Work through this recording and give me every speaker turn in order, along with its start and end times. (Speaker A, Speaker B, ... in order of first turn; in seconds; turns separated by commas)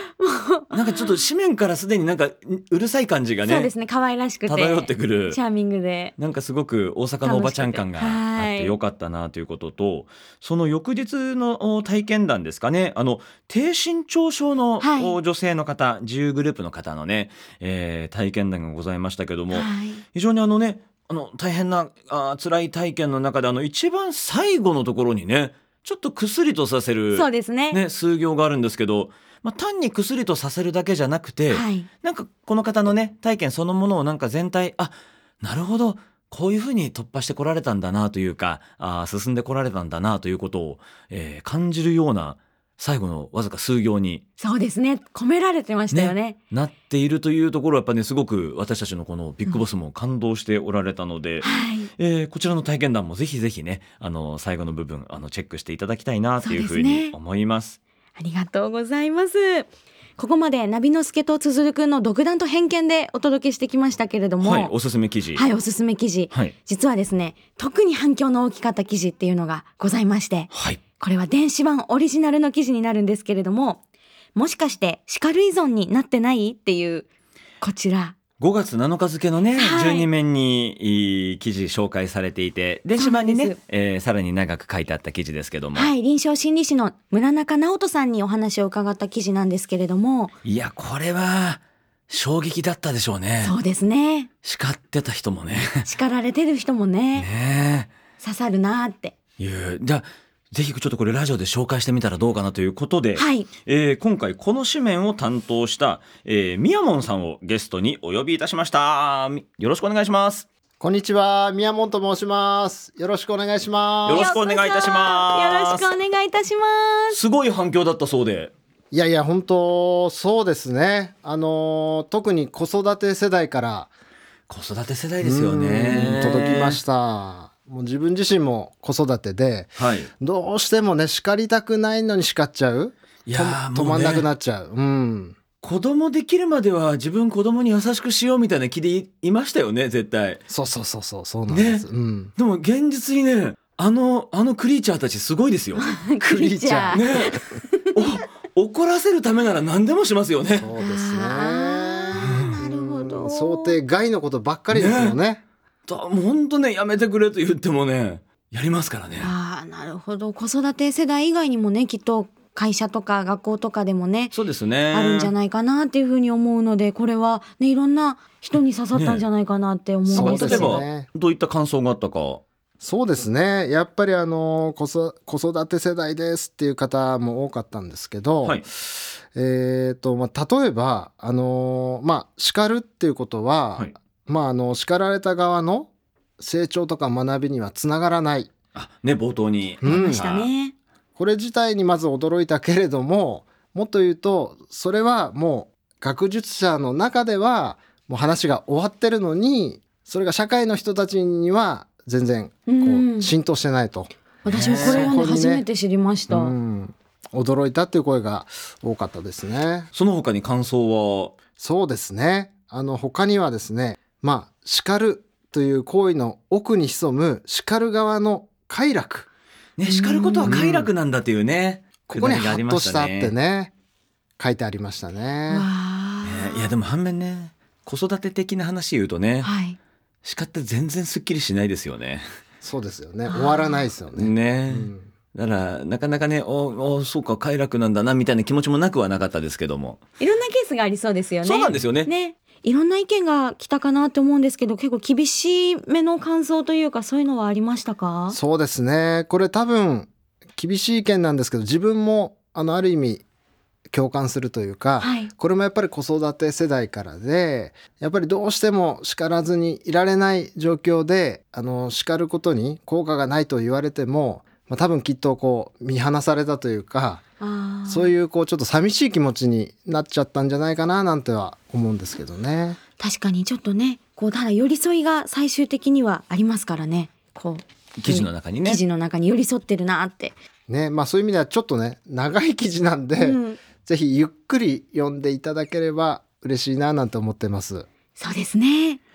Speaker A: 0.2-1.1, Speaker B: 0.7-3.7, Speaker A: 3.4-6.2, Speaker B: 4.5-5.4, Speaker B: 6.2-44.2, Speaker A: 7.2-8.8, Speaker A: 14.8-15.2, Speaker A: 19.5-20.0, Speaker A: 27.1-27.8, Speaker A: 31.5-31.9, Speaker A: 44.4-46.4, Speaker B: 45.9-51.5, Speaker A: 51.4-51.9, Speaker B: 52.0-57.8, Speaker A: 56.4-57.1, Speaker A: 58.2-64.7, Speaker B: 64.4-65.5, Speaker A: 65.4-73.8, Speaker B: 70.5-70.8, Speaker A: 74.3-77.1, Speaker A: 77.6-78.2, Speaker B: 78.4-85.9, Speaker A: 79.6-80.1, Speaker A: 83.0-83.6, Speaker A: 85.8-90.3, Speaker B: 90.4-93.5, Speaker A: 93.4-94.3, Speaker B: 94.4-95.9, Speaker A: 95.8-97.3, Speaker B: 97.2-97.9, Speaker A: 98.2-99.2, Speaker B: 99.4-110.5, Speaker A: 103.2-103.5, Speaker C: 110.8-114.3, Speaker B: 114.0-115.9, Speaker A: 114.1-117.2, Speaker B: 117.1-118.5, Speaker C: 118.9-123.9, Speaker B: 124.5-126.8, Speaker C: 125.2-135.4, Speaker B: 129.8-130.1, Speaker B: 133.3-134.3, Speaker B: 135.6-140.4, Speaker C: 140.5-142.3, Speaker B: 141.5-141.8, Speaker B: 142.3-145.8, Speaker A: 145.8-148.0, Speaker C: 146.2-147.0, Speaker B: 146.9-147.4, Speaker B: 147.9-150.7, Speaker C: 150.6-155.4, Speaker A: 150.8-153.8, Speaker B: 152.2-152.5, Speaker B: 154.7-155.2, Speaker B: 155.9-159.3, Speaker A: 159.2-164.3, Speaker B: 164.3-165.3, Speaker A: 164.9-170.8, Speaker B: 168.9-169.2, Speaker C: 170.1-171.1, Speaker B: 170.2-172.4, Speaker C: 172.8-188.5, Speaker B: 188.8-190.5, Speaker C: 189.8-190.3, Speaker A: 189.8-190.7, Speaker C: 191.2-205.7, Speaker A: 202.7-203.3, Speaker A: 204.4-206.6, Speaker B: 204.5-205.2, Speaker C: 206.3-209.9, Speaker B: 209.9-211.3, Speaker C: 211.6-219.3, Speaker B: 219.8-223.3, Speaker A: 219.9-220.6, Speaker C: 220.4-220.9, Speaker C: 222.1-223.7, Speaker C: 224.4-225.7, Speaker A: 225.5-226.7, Speaker B: 226.2-229.5, Speaker A: 229.4-229.8, Speaker B: 230.2-232.3, Speaker C: 232.6-235.1, Speaker A: 233.3-233.9, Speaker B: 234.2-240.0, Speaker A: 240.2-248.4, Speaker B: 241.4-242.1, Speaker C: 248.3-253.2, Speaker C: 253.9-267.2, Speaker A: 255.0-255.3, Speaker A: 267.4-268.1, Speaker C: 267.9-272.8, Speaker A: 273.0-280.4, Speaker B: 278.0-278.8, Speaker C: 280.7-287.9, Speaker A: 283.2-283.6, Speaker A: 288.2-289.0